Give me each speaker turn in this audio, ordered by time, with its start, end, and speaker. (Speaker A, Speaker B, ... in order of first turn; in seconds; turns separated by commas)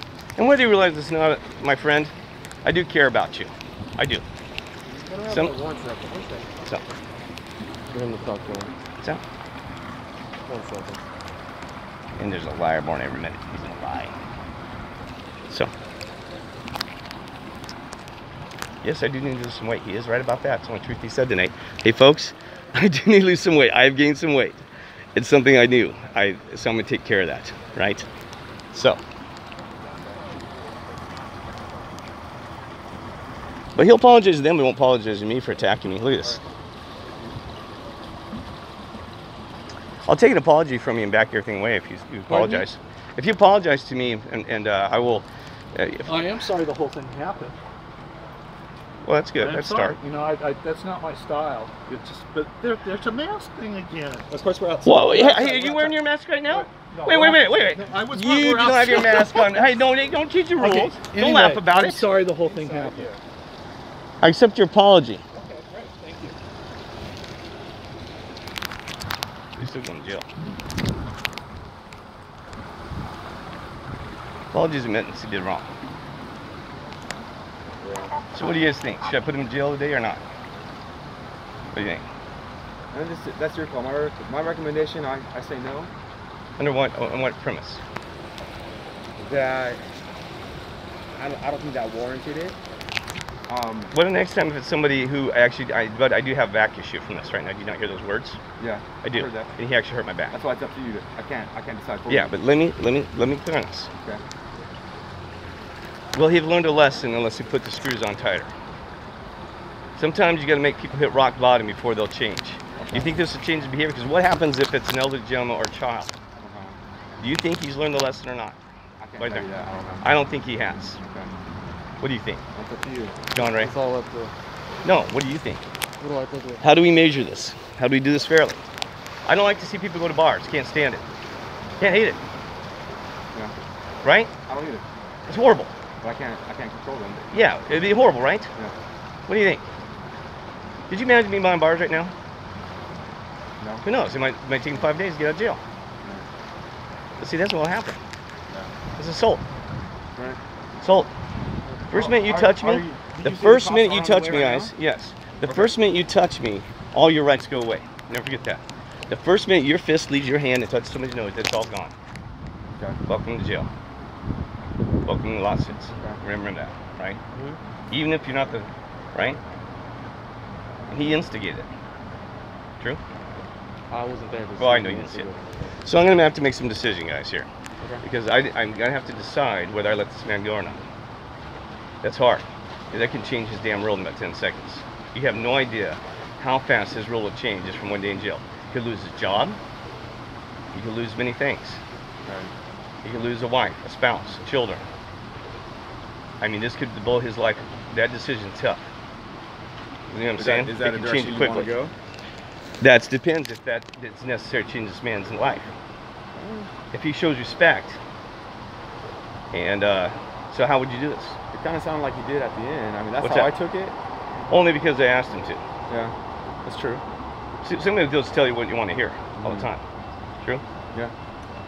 Speaker A: 0.4-4.2, Speaker B: 4.9-6.5, Speaker A: 5.2-5.5, Speaker B: 7.9-8.7, Speaker B: 10.4-11.1, Speaker A: 12.2-14.1, Speaker A: 18.8-24.6, Speaker A: 25.1-28.1, Speaker A: 28.7-29.0, Speaker A: 33.8-36.4, Speaker A: 40.1-46.3, Speaker B: 42.3-42.6, Speaker C: 46.0-47.5, Speaker A: 49.0-50.0, Speaker C: 49.4-55.9, Speaker D: 54.7-54.9, Speaker A: 54.8-62.1, Speaker C: 56.5-59.8, Speaker C: 60.6-63.1, Speaker D: 62.4-63.1, Speaker A: 64.2-65.2, Speaker C: 65.3-66.3, Speaker A: 69.6-70.2, Speaker A: 74.5-75.7, Speaker D: 77.8-78.1, Speaker A: 78.3-80.2, Speaker A: 81.7-82.1, Speaker D: 82.9-85.9, Speaker A: 86.6-87.8, Speaker D: 89.2-89.9, Speaker D: 91.1-92.6, Speaker D: 93.5-93.9, Speaker A: 93.9-98.4, Speaker D: 98.6-99.5, Speaker A: 99.0-100.3, Speaker D: 100.3-102.3, Speaker A: 102.1-103.9, Speaker A: 106.1-108.5, Speaker A: 110.0-116.1, Speaker D: 112.8-113.2, Speaker D: 116.4-116.8, Speaker A: 117.2-118.6, Speaker D: 119.0-120.1, Speaker A: 119.2-119.5, Speaker A: 120.0-121.0, Speaker D: 121.1-121.3, Speaker A: 122.0-122.4, Speaker D: 122.5-123.2, Speaker A: 123.3-123.7, Speaker B: 123.4-124.3, Speaker A: 124.8-125.6, Speaker B: 126.0-126.6, Speaker A: 126.6-128.6, Speaker A: 129.2-131.0, Speaker A: 131.8-132.2, Speaker A: 134.0-134.3, Speaker D: 134.5-134.8, Speaker A: 135.3-135.8, Speaker D: 136.0-137.2, Speaker A: 137.3-138.5, Speaker A: 139.3-139.7, Speaker A: 140.9-142.1, Speaker D: 143.6-143.9, Speaker A: 143.8-145.6, Speaker A: 147.2-148.0, Speaker A: 148.9-149.4, Speaker A: 150.8-151.1, Speaker D: 151.8-154.7, Speaker A: 151.9-161.9, Speaker D: 155.4-155.8, Speaker A: 163.1-163.7, Speaker A: 165.1-167.2, Speaker B: 167.3-167.6, Speaker A: 167.9-169.4, Speaker A: 170.9-171.7, Speaker B: 173.9-175.8, Speaker A: 174.6-175.3, Speaker A: 175.8-177.5, Speaker A: 178.0-180.9, Speaker A: 182.0-189.6, Speaker A: 190.7-191.8, Speaker D: 192.2-192.5, Speaker A: 193.0-194.9, Speaker A: 196.4-198.9, Speaker A: 200.1-201.7, Speaker D: 200.4-201.9, Speaker A: 202.8-205.7, Speaker D: 206.3-206.7, Speaker A: 206.9-208.0, Speaker A: 209.5-211.4, Speaker D: 211.5-213.9, Speaker A: 213.2-213.6, Speaker A: 214.5-215.6, Speaker D: 215.9-217.0, Speaker A: 217.6-219.8, Speaker D: 219.4-219.7